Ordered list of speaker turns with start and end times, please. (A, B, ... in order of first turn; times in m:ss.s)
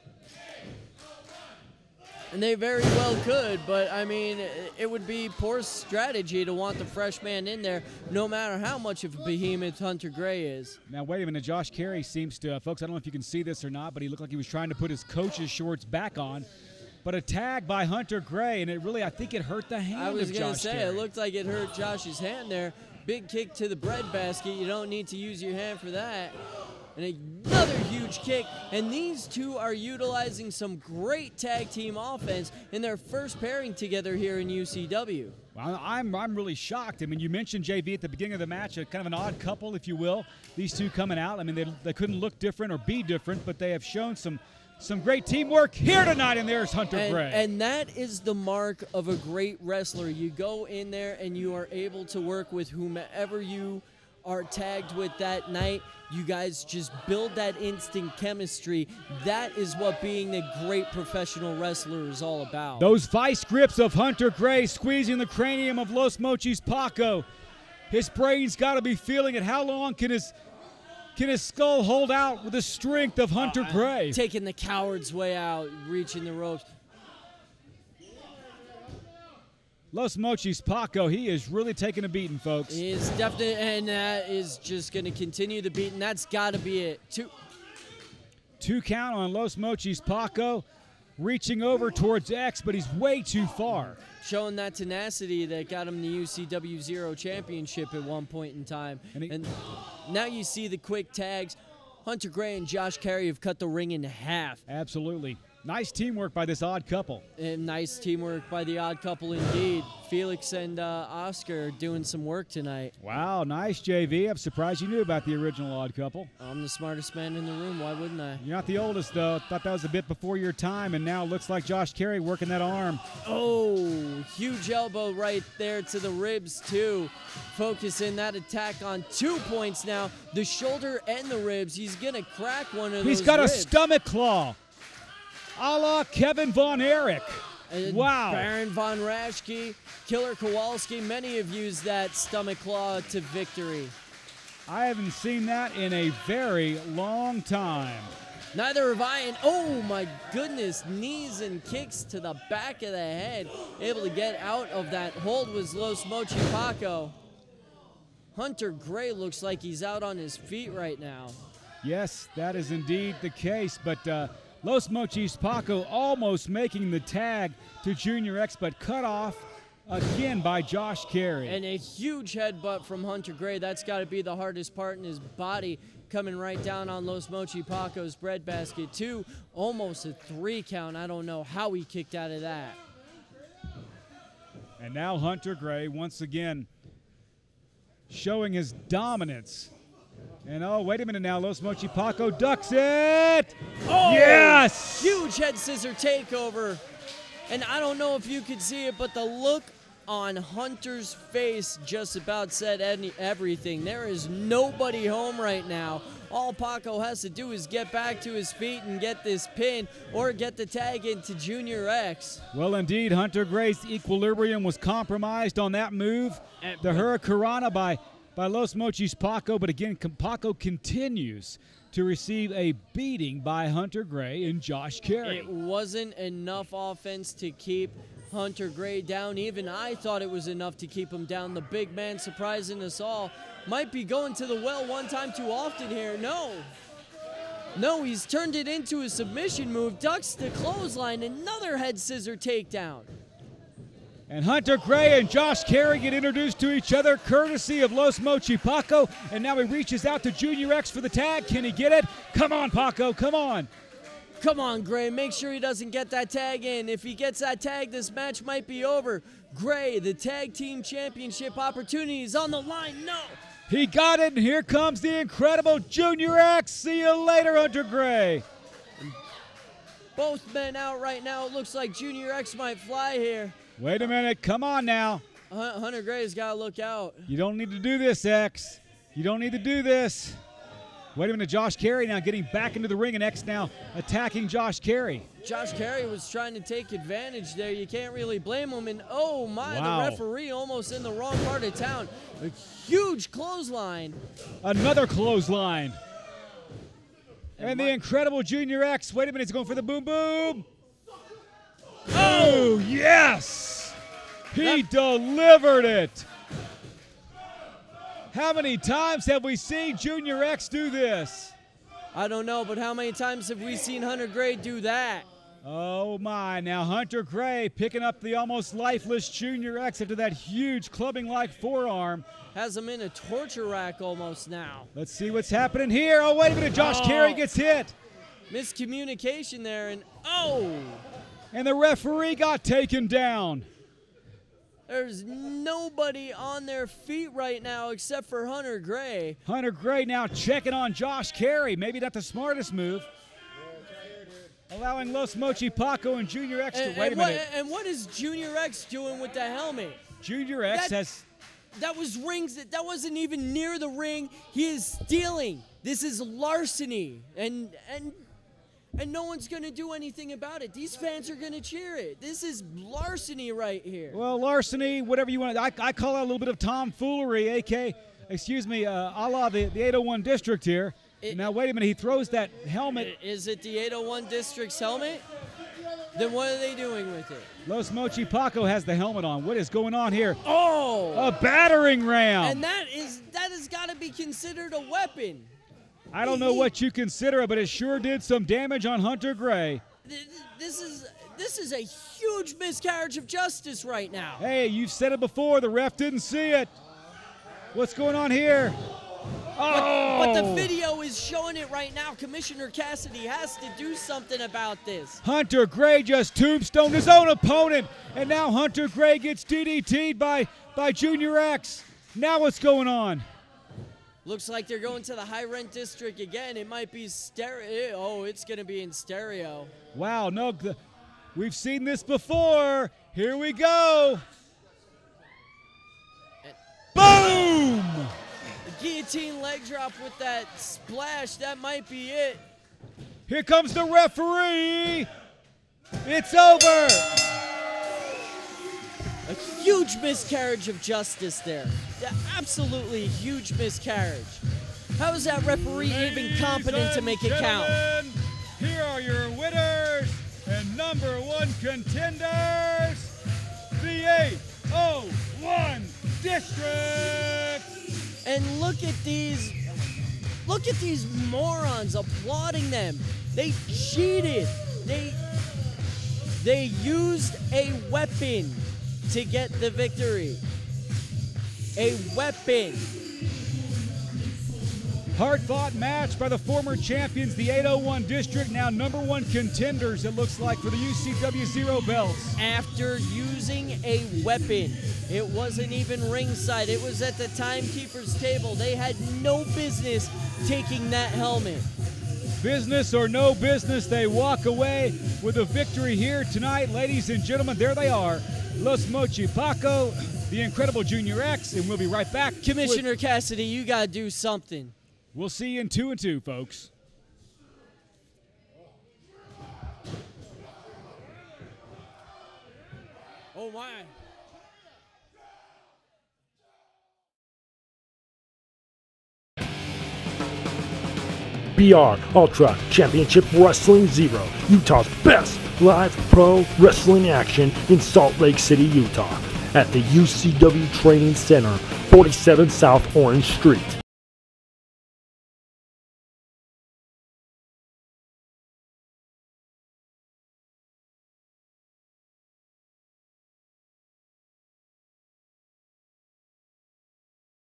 0:02.3-0:10.8 A
0:10.9-0:16.5 B
0:17.0-0:21.0 B
0:19.9-0:26.4 A
0:27.0-0:35.4 A
0:35.5-0:47.4 B
0:46.9-1:02.9 A
1:02.8-1:07.2 B
1:07.9-1:10.3 B
1:11.2-1:14.2 B
1:13.4-1:16.6 A
1:19.9-1:22.8 B
1:22.7-1:27.3 A
1:28.6-1:30.6 B
1:31.2-1:34.0 B
1:34.2-1:39.5 A
1:40.0-1:44.6 A
1:44.7-1:47.2 B
1:47.4-1:52.9 A
1:53.0-1:56.3 B
1:56.4-1:58.4 A
1:58.4-2:03.0 B
2:03.2-2:13.7 A
2:13.0-2:14.6 B
2:15.6-2:18.5 B
2:17.7-2:23.9 A
2:24.7-2:28.1 B
2:28.5-2:37.1 A
2:38.3-2:41.4 A
2:41.8-2:51.6 B
2:51.4-3:02.8 A
3:04.8-3:06.7 B
3:08.1-3:09.7 B
3:10.4-3:15.2 B
3:13.9-3:16.8 A
3:17.5-3:32.4 A
3:32.5-3:45.5 B
3:36.6-3:37.1 A
3:45.2-3:56.7 A
3:57.7-4:03.1 A
4:04.3-4:13.7 B
4:14.4-4:23.4 A
4:23.7-4:28.4 B
4:30.2-4:33.6 A
4:33.8-4:35.2 B
4:35.5-4:37.3 A
4:37.3-4:40.4 B
4:41.1-4:45.2 B
4:45.4-4:54.2 A
4:49.6-4:50.2 B
4:54.6-4:56.0 B
4:57.6-4:58.0 A
4:57.6-5:00.6 B
5:02.1-5:02.8 A
5:02.1-5:04.0 B
5:04.5-5:06.3 B
5:08.3-5:11.5 B
5:12.1-5:15.3 A
5:15.6-5:22.2 B
5:22.5-5:24.9 A
5:24.9-5:27.9 B
5:26.7-5:27.4 A
5:28.5-5:31.0 A
5:31.5-5:33.6 B
5:34.9-5:39.4 A
5:39.4-5:43.1 B
5:44.7-5:47.4 B
5:46.7-5:50.0 A
5:50.2-5:51.2 B
5:50.7-5:51.0 A
5:51.8-5:58.2 A
5:59.0-6:04.2 A
6:04.1-6:13.1 B
6:11.2-6:11.5 A
6:12.9-6:15.2 A
6:16.1-6:17.5 A
6:17.6-6:20.4 B
6:20.4-6:21.3 A
6:21.1-6:22.6 B
6:22.4-6:25.5 A
6:26.1-6:29.8 B
6:26.2-6:26.7 A
6:30.0-6:34.4 A
6:34.4-6:36.7 B
6:37.7-6:38.8 B
6:39.6-6:40.7 B
6:39.7-6:45.2 A
6:45.2-6:53.2 B
6:54.2-6:59.7 A
6:59.9-7:00.8 B
7:01.3-7:04.2 B
7:06.9-7:08.1 B
7:08.7-7:12.4 A
7:13.3-7:15.1 B
7:16.0-7:17.1 B
7:19.2-7:24.4 A
7:25.0-7:27.8 A
7:25.6-7:33.1 B
7:33.8-7:37.6 B
7:38.2-7:39.6 A
7:40.4-7:45.2 A
7:46.4-7:50.4 A
7:51.8-7:52.9 A
7:55.1-8:02.4 B
8:02.4-8:11.7 A
8:12.4-8:22.8 B
8:22.4-8:24.7 A
8:25.1-8:26.7 B
8:33.3-8:33.9 A
8:41.5-8:53.8 C